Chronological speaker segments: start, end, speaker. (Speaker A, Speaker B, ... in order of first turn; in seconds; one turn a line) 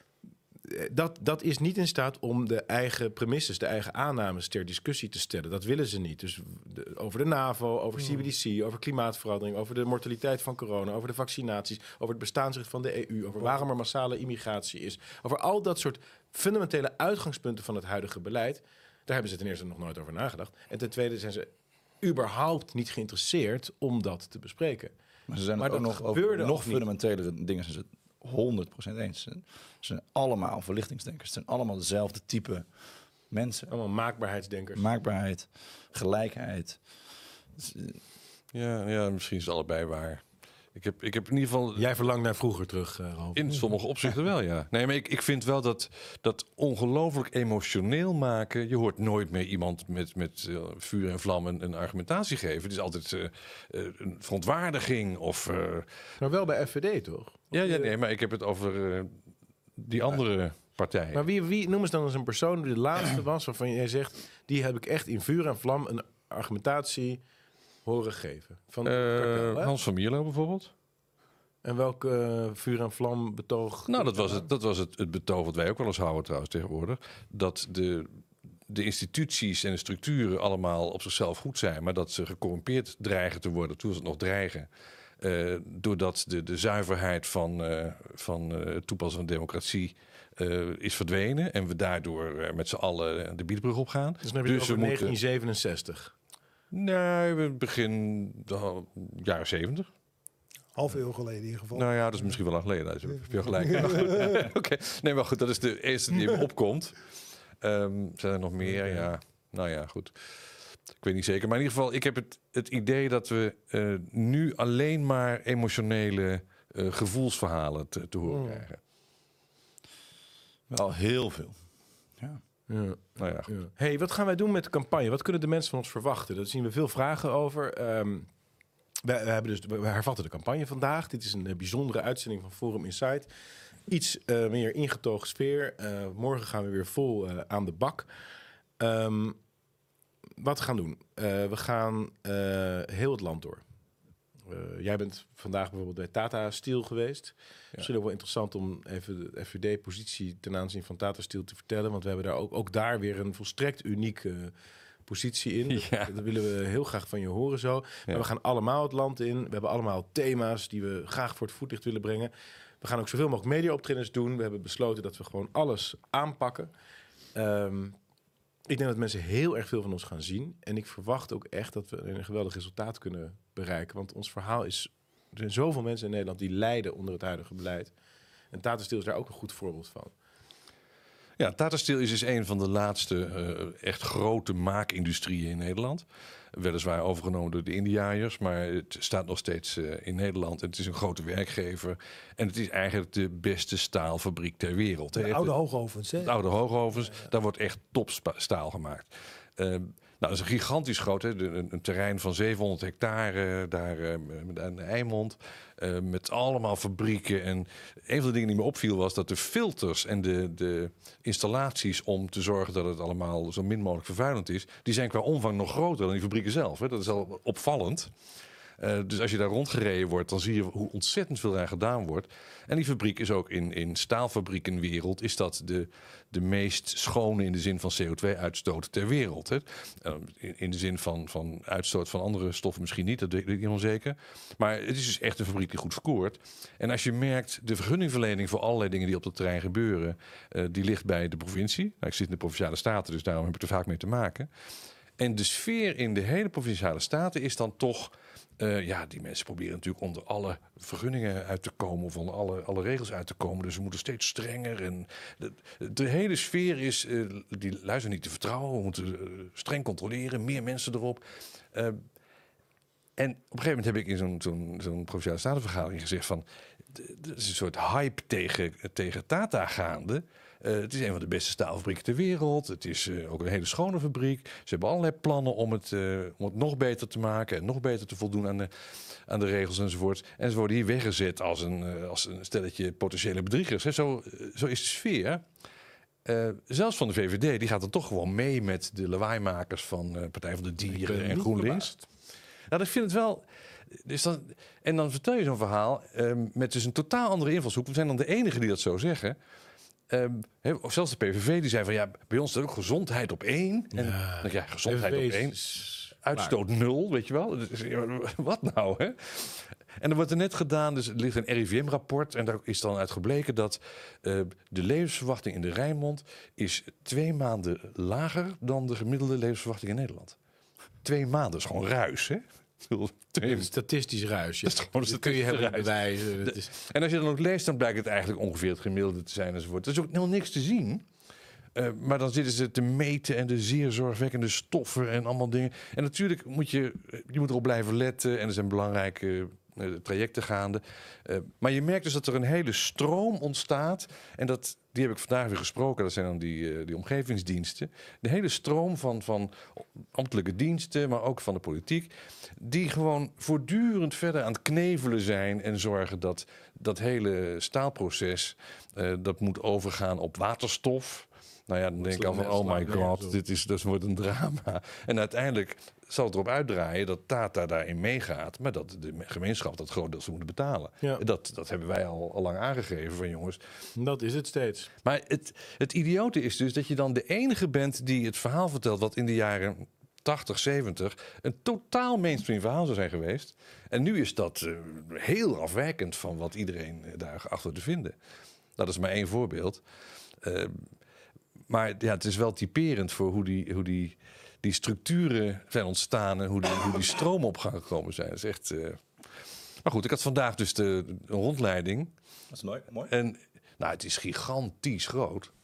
Speaker A: 0.7-24.9
Speaker B: 25.3-32.7
Speaker A: 25.6-26.8
Speaker B: 33.3-33.7
Speaker A: 33.7-34.9
Speaker B: 34.7-36.8
Speaker B: 37.5-38.0
Speaker C: 38.5-41.9
Speaker A: 41.8-44.1
Speaker C: 43.4-55.9
Speaker A: 56.2-57.9
Speaker C: 57.5-59.1
Speaker C: 59.8-61.2
Speaker A: 61.1-67.2
Speaker A: 67.8-69.7
Speaker C: 68.8-70.7
Speaker A: 71.6-74.5
Speaker C: 73.9-78.1
Speaker C: 78.7-84.7
Speaker C: 85.2-95.1
Speaker A: 94.2-96.1
Speaker C: 96.7-99.9
Speaker D: 100.7-102.4
Speaker C: 101.7-107.0
Speaker D: 103.6-104.4
Speaker C: 107.6-110.5
Speaker A: 108.6-109.1
Speaker C: 111.0-118.8
Speaker D: 118.3-118.6
Speaker B: 120.7-121.6
Speaker A: 122.7-128.3
Speaker C: 123.2-123.5
Speaker A: 129.0-133.3
Speaker A: 133.9-138.1
Speaker A: 138.8-139.4
Speaker A: 140.4-143.6
Speaker A: 144.5-154.5
Speaker A: 155.1-166.7
Speaker C: 155.7-156.1
Speaker A: 167.3-168.0
Speaker A: 168.7-177.9
Speaker A: 178.5-180.1
Speaker C: 181.4-195.6
Speaker D: 195.1-196.3
Speaker C: 196.1-218.1
Speaker C: 218.8-244.5
Speaker C: 245.2-262.0
Speaker C: 263.2-285.4
Speaker C: 286.2-292.0
Speaker A: 290.9-292.0
Speaker C: 292.7-299.4
Speaker C: 300.1-320.4
Speaker A: 303.9-306.6
Speaker C: 321.0-323.7
Speaker A: 323.4-326.7
Speaker C: 324.6-331.0
Speaker C: 331.7-373.6
Speaker A: 362.0-363.4
Speaker A: 373.9-374.9
Speaker C: 375.0-388.1
Speaker C: 388.8-389.8
Speaker C: 390.4-390.8
Speaker C: 391.7-399.0
Speaker C: 399.8-402.1
Speaker B: 402.5-403.1
Speaker C: 403.1-405.5